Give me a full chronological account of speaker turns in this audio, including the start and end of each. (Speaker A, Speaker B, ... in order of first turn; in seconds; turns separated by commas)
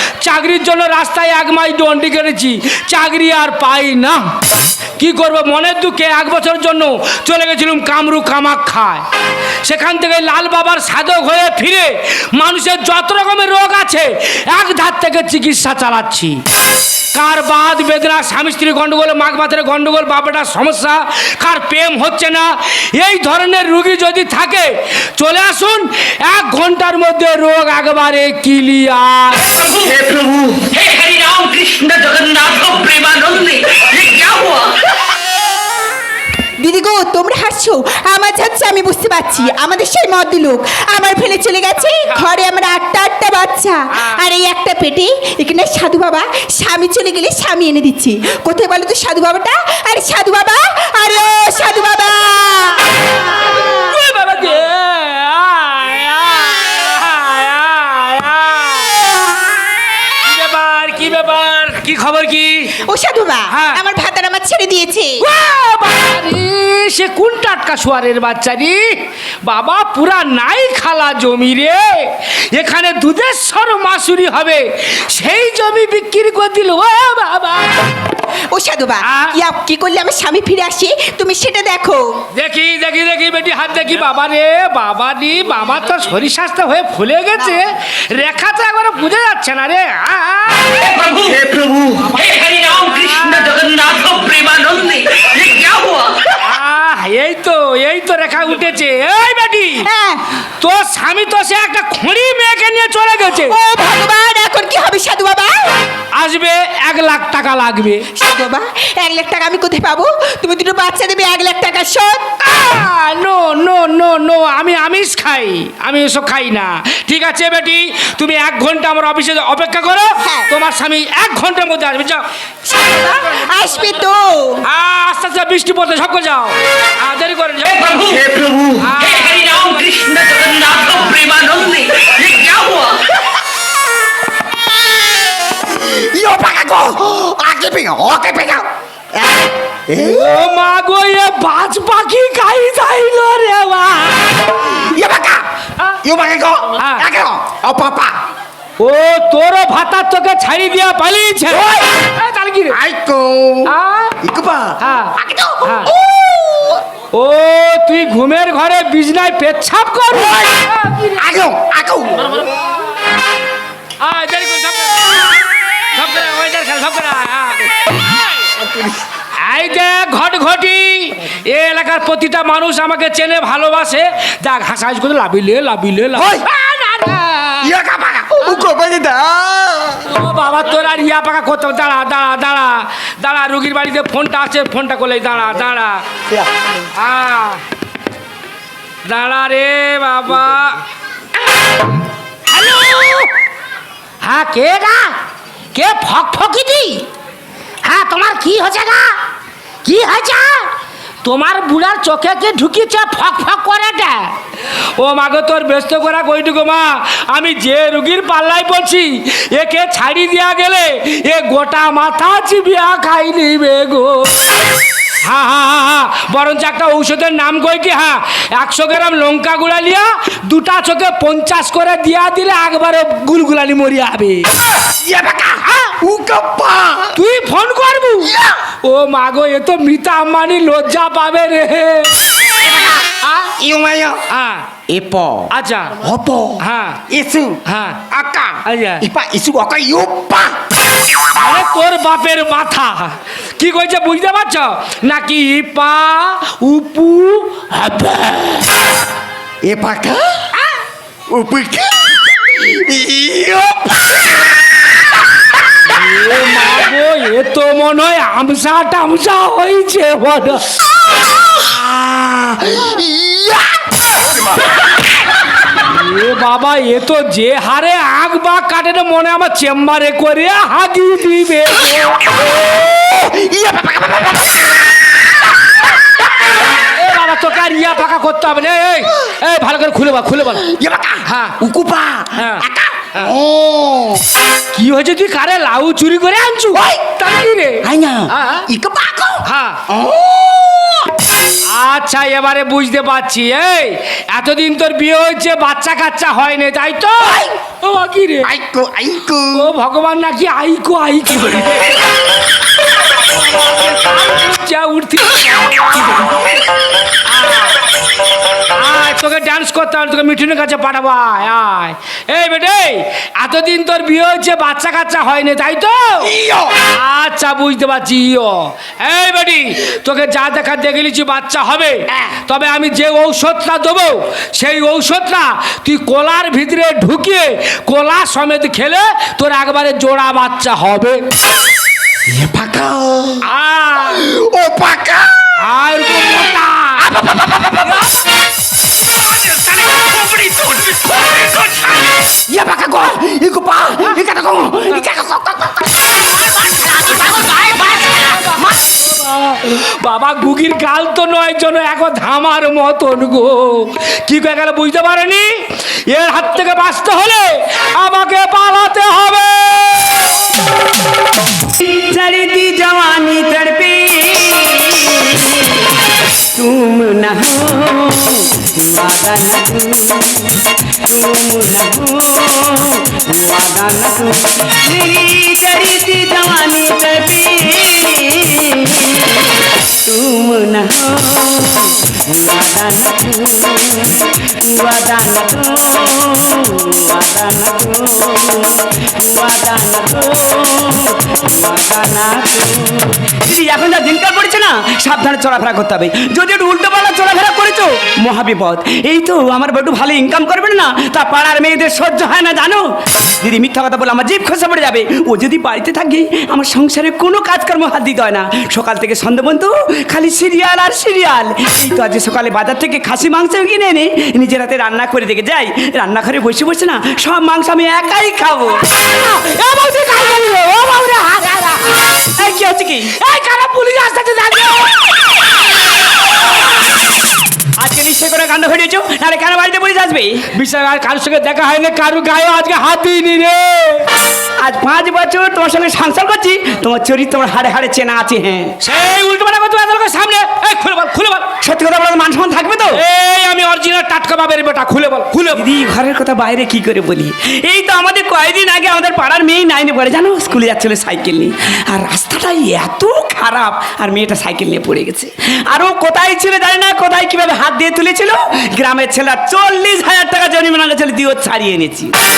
Speaker A: 0.2-4.3, Speaker A: 5.0-9.0, Speaker A: 9.6-16.4, Speaker A: 17.1-29.5, Speaker B: 29.5-34.8, Speaker C: 29.9-30.7, Speaker D: 36.6-53.1, Speaker A: 53.5-59.2, Speaker A: 60.2-62.8, Speaker D: 62.8-65.2, Speaker A: 63.5-63.8, Speaker A: 65.2-77.8, Speaker D: 78.5-82.2, Speaker A: 79.0-79.3, Speaker A: 82.3-90.8, Speaker B: 90.7-96.3, Speaker A: 92.0-93.7, Speaker A: 96.4-99.9, Speaker D: 99.8-100.2, Speaker A: 100.6-103.5, Speaker D: 103.5-105.8, Speaker A: 106.2-108.0, Speaker D: 108.1-112.4, Speaker A: 112.4-122.2, Speaker D: 120.2-120.5, Speaker D: 122.7-124.6, Speaker A: 124.6-128.2, Speaker B: 127.7-133.0, Speaker C: 128.2-128.7, Speaker A: 128.8-129.7, Speaker C: 135.7-140.3, Speaker A: 139.9-144.6, Speaker C: 144.9-145.4, Speaker C: 146.0-148.2, Speaker A: 146.8-147.1, Speaker A: 148.8-152.8, Speaker C: 151.5-151.9, Speaker C: 152.7-153.7, Speaker A: 153.6-154.2, Speaker C: 154.2-156.7, Speaker A: 154.8-155.9, Speaker A: 157.1-161.3, Speaker C: 161.2-162.5, Speaker A: 164.0-167.7, Speaker A: 169.3-177.7, Speaker C: 177.6-180.0, Speaker A: 180.0-186.0, Speaker A: 186.9-187.6, Speaker A: 189.0-190.8, Speaker A: 192.5-193.3, Speaker A: 194.2-195.1, Speaker A: 195.7-197.0, Speaker A: 197.8-199.2, Speaker A: 199.8-200.7, Speaker A: 201.2-204.3, Speaker A: 205.0-214.6, Speaker A: 215.2-224.5, Speaker C: 225.0-227.1, Speaker A: 227.1-232.1, Speaker A: 233.2-233.5, Speaker C: 233.6-234.2, Speaker A: 234.3-234.7, Speaker A: 235.5-236.0, Speaker C: 236.0-237.6, Speaker A: 236.6-237.0, Speaker A: 237.7-239.1, Speaker C: 238.1-240.5, Speaker A: 241.3-248.7, Speaker C: 249.6-250.4, Speaker C: 251.3-254.2, Speaker A: 255.9-260.7, Speaker C: 261.4-263.7, Speaker A: 265.8-272.4, Speaker C: 272.6-274.9, Speaker A: 276.9-280.7, Speaker C: 280.7-284.2, Speaker A: 281.2-281.6, Speaker A: 282.4-283.3, Speaker A: 284.7-288.7, Speaker C: 286.8-287.0, Speaker C: 288.0-291.1, Speaker A: 289.4-289.8, Speaker A: 291.7-298.5, Speaker C: 297.2-297.5, Speaker C: 298.4-299.6, Speaker A: 299.5-302.0, Speaker A: 303.4-306.2, Speaker A: 307.3-307.8, Speaker A: 308.7-316.4, Speaker C: 316.4-316.7, Speaker A: 316.9-331.2, Speaker C: 332.3-333.4, Speaker A: 333.4-334.3, Speaker C: 334.2-335.3, Speaker A: 335.6-337.1, Speaker C: 337.0-338.1, Speaker C: 339.2-348.6, Speaker A: 348.2-360.3, Speaker E: 361.8-366.0, Speaker E: 366.5-418.8, Speaker A: 419.1-422.0, Speaker E: 422.3-423.1, Speaker A: 423.1-425.3, Speaker E: 427.8-430.4, Speaker A: 430.5-434.1, Speaker E: 434.6-438.7, Speaker A: 438.8-441.5, Speaker E: 441.6-443.0, Speaker A: 442.9-445.6, Speaker E: 445.5-462.1